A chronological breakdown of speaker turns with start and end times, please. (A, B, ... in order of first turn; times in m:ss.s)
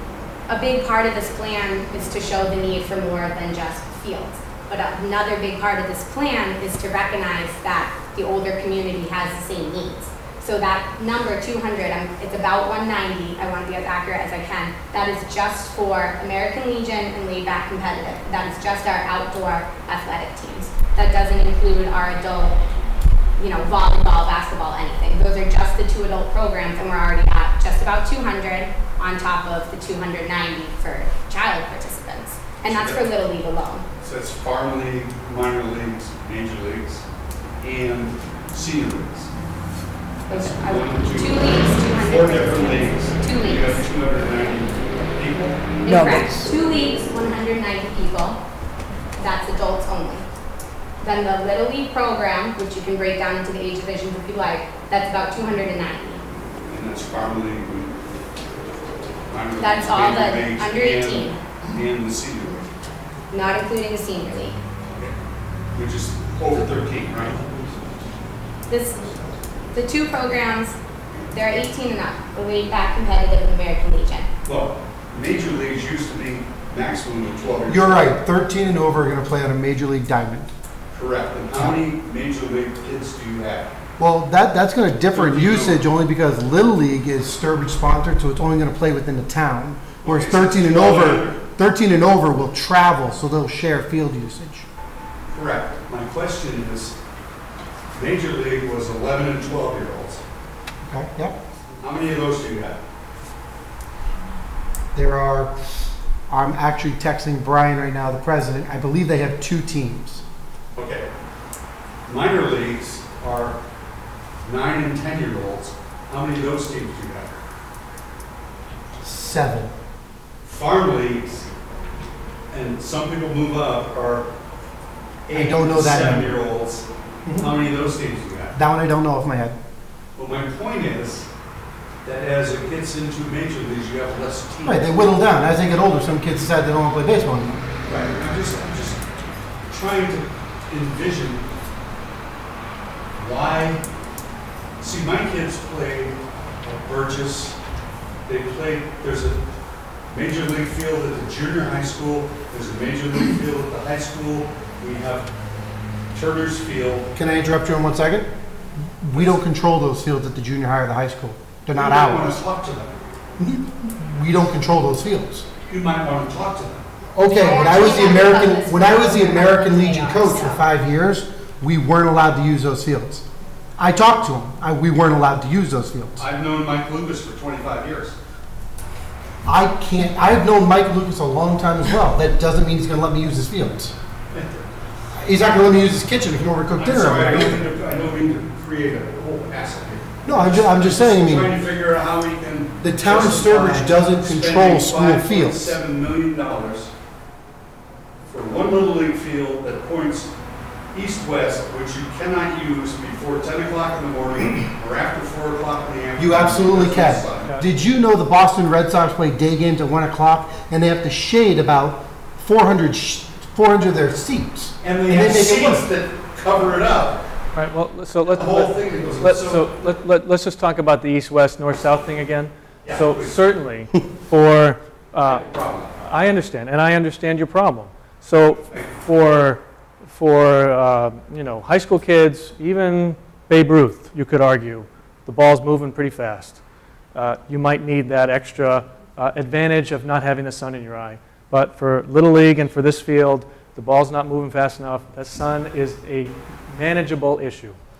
0:00.5-0:22.6 A
0:23.4-0:33.8 A
0:32.6-0:33.1 B
0:34.0-0:37.0 B
0:37.6-0:39.3 B
0:40.3-0:45.6 B
0:40.3-0:43.8 A
0:45.8-0:48.4 A
0:49.2-0:50.3 A
0:51.0-0:56.2 A
0:56.7-0:58.0 B
0:59.3-1:02.7 B
0:59.6-1:01.4 A
1:03.3-1:04.6 A
1:05.7-1:07.8 B
1:08.7-1:09.0 A
1:09.7-1:10.8 A
1:11.3-1:14.3 A
1:14.4-1:18.1 B
1:17.7-1:20.5 C
1:20.9-1:23.7 B
1:24.0-1:34.6 C
1:25.0-1:25.8 B
1:30.0-1:31.4 B
1:35.3-1:37.0 B
1:37.9-1:40.2 B
1:40.8-1:41.4 C
1:41.8-1:42.8 B
1:44.9-1:45.6 C
1:46.3-1:50.2 C
1:50.7-1:51.0 B
1:52.0-1:53.6 B
1:54.4-1:57.4 B
1:59.0-1:59.7 C
2:00.4-2:01.5 B
2:02.5-2:04.3 B
2:05.3-2:08.6 B
2:05.3-2:06.3 C
2:07.2-2:07.6 C
2:08.5-2:09.6 C
2:10.2-2:11.3 B
2:12.0-2:14.9 B
2:14.6-2:17.9 C
2:17.8-2:19.0 B
2:19.7-2:21.4 B
2:23.2-2:23.8 B
2:24.8-2:27.6 B
2:28.2-2:29.4 B
2:30.1-2:35.3 B
2:36.1-2:37.1 B
2:37.1-2:38.3 C
2:39.0-2:42.4 C
2:41.7-2:42.9 B
2:43.4-2:45.5 C
2:45.6-2:46.9 B
2:47.1-2:53.2 C
2:47.3-2:50.6 A
2:53.8-2:56.2 C
2:56.2-2:58.2 B
2:59.4-3:04.0 C
3:04.3-3:04.6 B
3:05.1-3:07.6 C
3:06.8-3:16.9 B
3:10.2-3:11.5 C
3:12.8-3:15.8 C
3:18.2-3:20.3 B
3:20.9-3:27.5 B
3:26.2-3:35.9 C
3:27.4-3:27.7 D
3:34.8-3:37.3 B
3:37.5-3:56.6 D
3:38.3-3:39.9 B
3:42.8-3:43.4 B
3:45.2-3:46.0 B
3:57.1-4:07.8 D